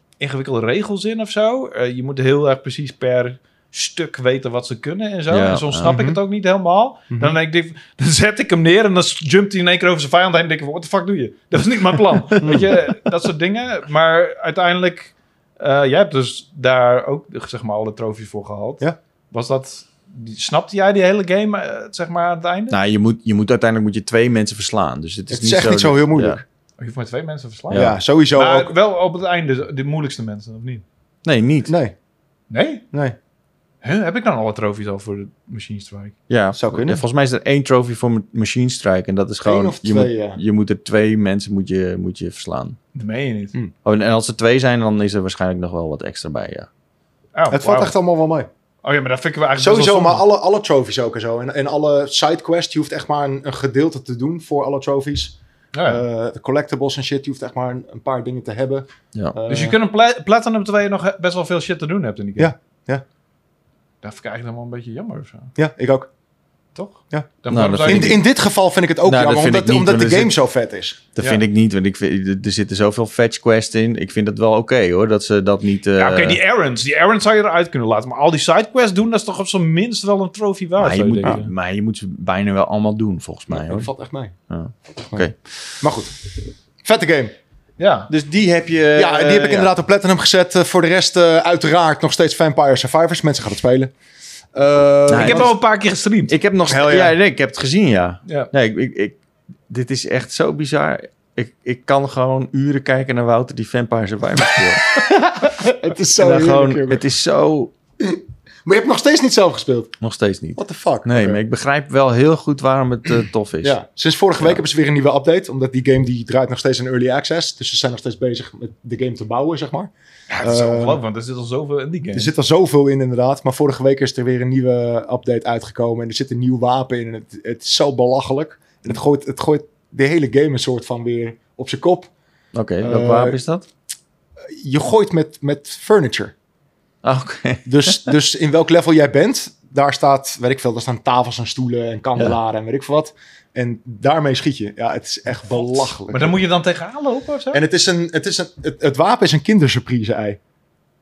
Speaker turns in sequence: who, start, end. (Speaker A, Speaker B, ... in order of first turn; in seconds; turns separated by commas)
Speaker A: 0.2-22.8, Speaker B: 5.3-5.9, Speaker C: 5.8-6.2, Speaker C: 7.1-7.4, Speaker C: 12.4-12.8, Speaker B: 22.7-26.4, Speaker C: 25.3-26.4, Speaker A: 26.8-30.8, Speaker B: 27.7-28.0, Speaker C: 27.7-28.7, Speaker B: 31.2-31.7, Speaker C: 31.7-31.9, Speaker A: 32.5-32.9, Speaker A: 33.8-36.1, Speaker B: 36.3-42.8, Speaker C: 36.5-37.0, Speaker C: 39.4-40.4, Speaker A: 42.9-43.5, Speaker B: 43.9-46.7, Speaker A: 47.4-47.9, Speaker C: 47.5-48.5, Speaker A: 48.8-50.2, Speaker C: 49.6-59.8, Speaker A: 55.7-56.0, Speaker A: 59.5-62.5, Speaker C: 62.4-63.0, Speaker A: 64.0-65.5, Speaker C: 65.6-66.1, Speaker A: 66.8-68.2, Speaker B: 67.5-68.2, Speaker C: 67.8-71.1, Speaker B: 69.0-70.3, Speaker B: 71.2-76.4, Speaker A: 76.0-81.5, Speaker B: 80.8-83.9, Speaker C: 83.5-84.3, Speaker B: 84.5-85.4, Speaker C: 85.8-86.2, Speaker C: 86.8-87.3, Speaker A: 87.8-88.1, Speaker B: 88.1-89.7, Speaker C: 89.0-93.9, Speaker C: 94.5-95.5, Speaker B: 95.1-95.6, Speaker A: 95.1-96.3, Speaker B: 96.3-99.2, Speaker C: 96.7-97.2, Speaker B: 99.7-105.7, Speaker C: 104.6-107.0, Speaker B: 106.2-107.7, Speaker C: 108.0-109.9, Speaker B: 110.0-113.8, Speaker C: 110.6-111.4, Speaker C: 113.6-121.0, Speaker A: 120.3-122.3, Speaker C: 122.1-132.1, Speaker B: 132.5-133.7, Speaker C: 132.8-133.4, Speaker C: 134.6-136.3, Speaker B: 137.0-138.1, Speaker C: 137.7-146.4, Speaker A: 146.1-147.6, Speaker C: 147.5-150.4